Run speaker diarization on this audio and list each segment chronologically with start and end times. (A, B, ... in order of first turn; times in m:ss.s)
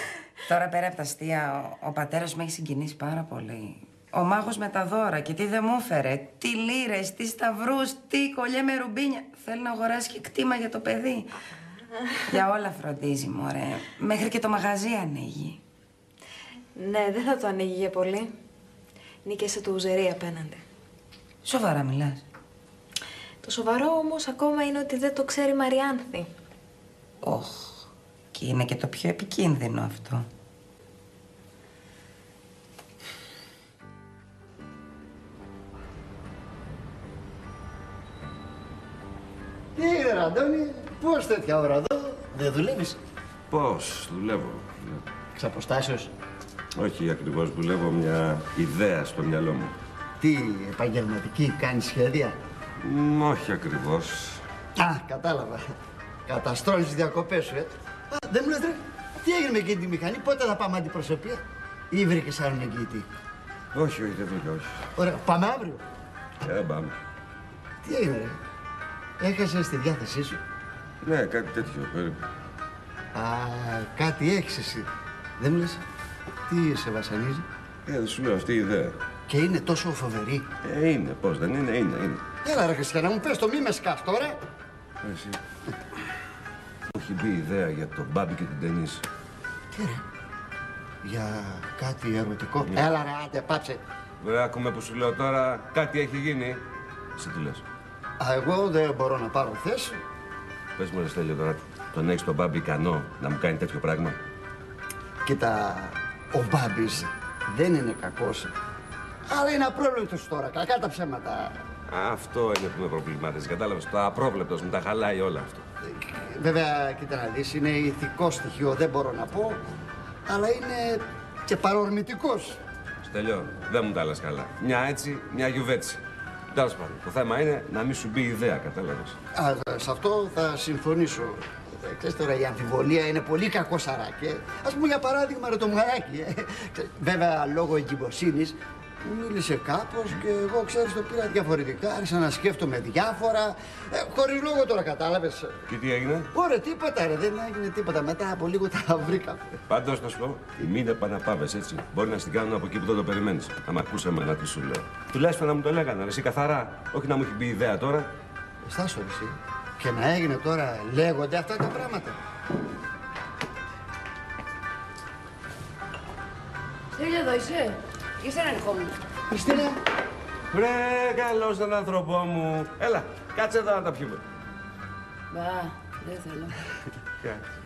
0:00.5-0:11.3 A
0:12.3-0:15.6 A
0:16.8-0:18.3 B
0:19.2-0:20.6 B
0:21.4-0:22.2 A
0:23.4-0:26.3 B
0:27.2-0:27.8 A
0:28.3-0:30.2 A
0:39.8-0:43.0 C
0:43.5-0:45.0 D
0:45.4-0:46.1 C
0:46.8-0:49.8 D
0:50.2-0:52.4 C
0:52.8-0:54.4 D
0:54.8-0:55.7 C
0:56.3-1:03.1 C
1:03.7-1:04.9 D
1:05.0-1:05.8 C
1:06.4-1:07.0 D
1:07.8-1:08.4 C
1:09.2-1:10.4 C
1:11.0-1:12.2 D
1:13.1-1:14.9 C
1:15.4-1:15.8 C
1:16.5-1:17.5 C
1:17.9-1:19.0 D
1:19.3-1:20.5 C
1:20.6-1:22.2 D
1:22.4-1:24.4 C
1:25.0-1:25.4 D
1:26.9-1:29.0 D
1:29.7-1:30.0 C
1:31.0-1:33.8 C
1:34.2-1:36.6 D
1:37.2-1:37.6 D
1:38.2-1:40.0 C
1:40.8-1:44.2 D
1:45.2-1:48.5 C
1:49.3-1:51.6 C
1:51.9-1:55.6 D
1:55.8-1:59.6 C
2:00.3-2:02.6 C
2:03.0-2:06.0 D
2:06.5-2:09.2 D
2:09.3-2:25.6 C
2:25.7-2:26.3 D
2:26.3-2:29.6 C
2:29.7-2:38.1 D
2:38.6-2:42.2 C
2:46.9-2:49.0 E
2:49.4-2:49.7 C
2:50.5-2:54.2 D
2:55.3-2:56.5 E